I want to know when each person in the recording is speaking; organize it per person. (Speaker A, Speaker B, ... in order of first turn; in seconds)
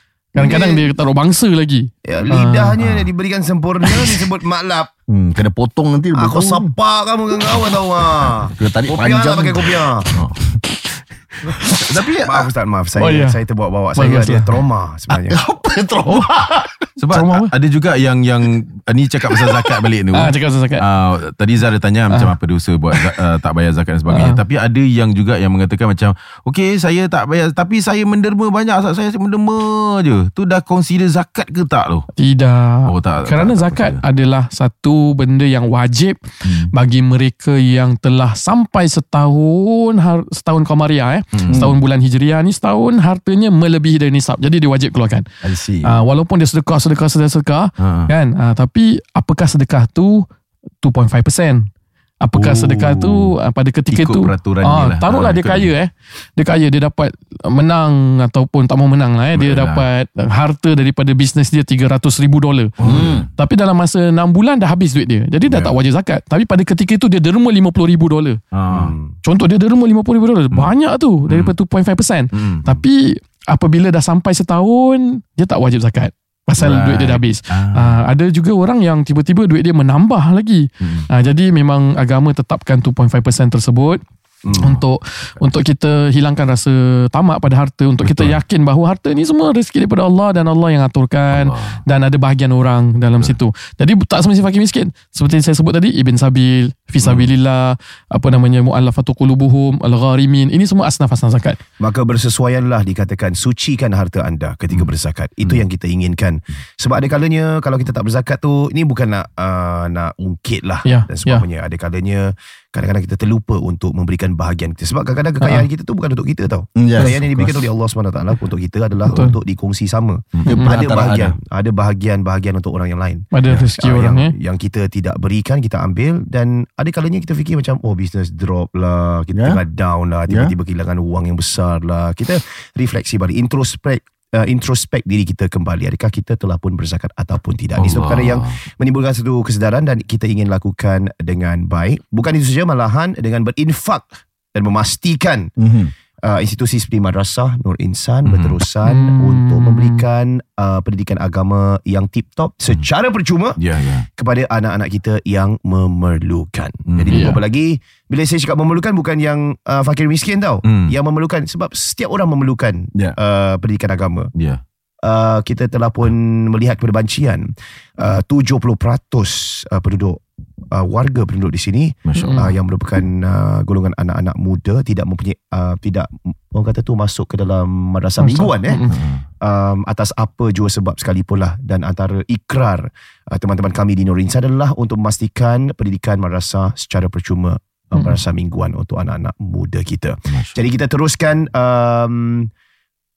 Speaker A: 0.3-2.8, 11.5-11.9, 13.0-13.4, 13.9-14.6, 17.1-17.5, 20.1-20.8, 24.1-24.4, 32.2-45.3, 45.8-50.3, 50.8-51.7, 52.2-62.7, 63.4-68.4, 69.2-84.0, 84.5-101.6, 110.8-111.4, 115.4-115.7, 119.1-119.4, 120.5-120.8, 123.3-124.3, 148.8-150.0, 157.1-157.4, 172.1-172.5, 178.2-178.9
Speaker B: 0.4-0.9, 2.0-4.9, 6.1-10.1, 12.2-15.4, 68.7-69.1, 84.4-84.8, 101.8-145.5, 146.2-153.6, 154.2-164.3, 165.0-178.8, 179.4-192.5
Speaker C: 5.1-6.7, 8.6-10.3, 15.1-16.9, 36.5-36.7, 41.5-41.8, 45.4-46.0, 62.8-63.3, 116.8-117.6, 120.5-121.4, 129.3-129.6, 130.3-130.5, 145.6-145.9
Speaker D: 11.8-12.5, 17.0-32.1, 32.9-34.0, 41.3-41.7, 47.8-48.1, 52.4-53.3, 53.9-55.7, 59.4-59.9, 62.8-63.3, 68.5-68.9, 71.3-71.5, 72.3-72.8, 76.6-78.0, 80.8-81.1, 88.0-88.4, 91.3-91.8, 97.0-97.3, 137.8-138.6, 148.2-148.6, 153.6-154.1, 156.9-157.3, 160.6-160.9, 164.4-164.6, 172.1-172.4, 178.9-179.2, 190.3-190.6